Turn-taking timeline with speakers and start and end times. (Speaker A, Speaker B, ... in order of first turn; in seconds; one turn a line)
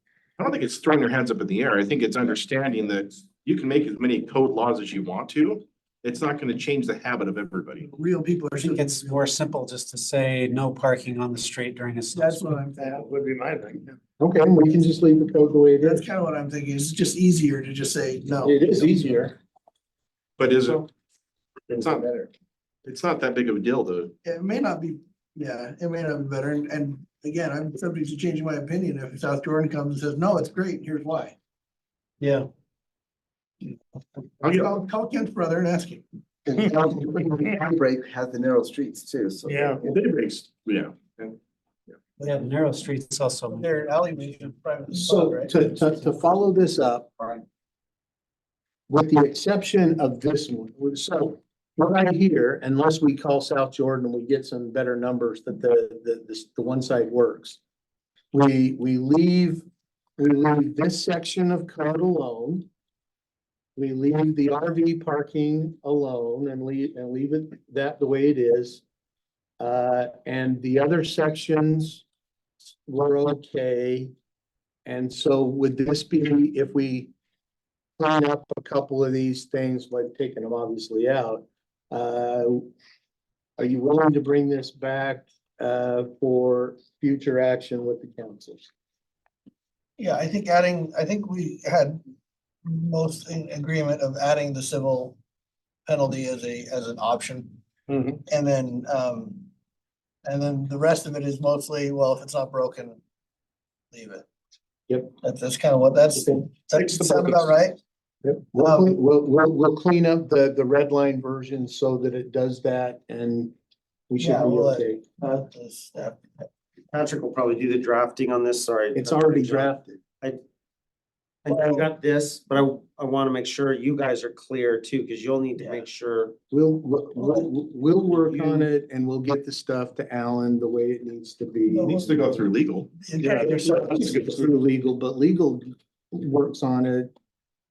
Speaker A: 0.4-7.9
Speaker B: 7.8-9.4
Speaker C: 8.6-12.4
Speaker B: 12.1-13.1
Speaker A: 12.8-13.9
Speaker D: 14.2-16.1
Speaker B: 15.8-18.9
Speaker D: 18.4-19.4
Speaker A: 20.4-20.9
Speaker A: 21.7-22.3
Speaker A: 22.8-24.1
Speaker B: 24.2-31.4
Speaker B: 34.4-36.0
Speaker E: 36.5-39.9
Speaker A: 39.5-41.4
Speaker B: 42.2-42.5
Speaker C: 42.3-44.3
Speaker B: 43.5-45.6
Speaker D: 44.9-47.4
Speaker D: 48.9-57.6
Speaker D: 58.3-59.6
Speaker D: 60.2-62.7
Speaker D: 63.8-68.8
Speaker D: 69.6-72.0
Speaker D: 72.6-74.1
Speaker D: 74.8-77.1
Speaker D: 78.0-82.7
Speaker D: 83.6-88.7
Speaker B: 90.0-92.0
Speaker B: 92.7-95.2
Speaker B: 95.9-97.6
Speaker B: 98.2-99.5
Speaker B: 100.2-103.0
Speaker B: 103.9-104.3
Speaker D: 104.9-105.1
Speaker B: 105.2-107.8
Speaker D: 106.2-107.4
Speaker D: 108.2-113.5
Speaker B: 108.6-109.0
Speaker D: 114.1-115.1
Speaker B: 114.2-116.2
Speaker F: 116.9-120.4
Speaker D: 119.0-120.0
Speaker F: 121.5-126.4
Speaker B: 121.5-121.9
Speaker B: 125.6-125.9
Speaker D: 126.5-132.0
Speaker F: 128.3-128.7
Speaker B: 131.7-132.2
Speaker A: 131.8-133.0
Speaker B: 133.0-134.3
Speaker D: 133.2-137.1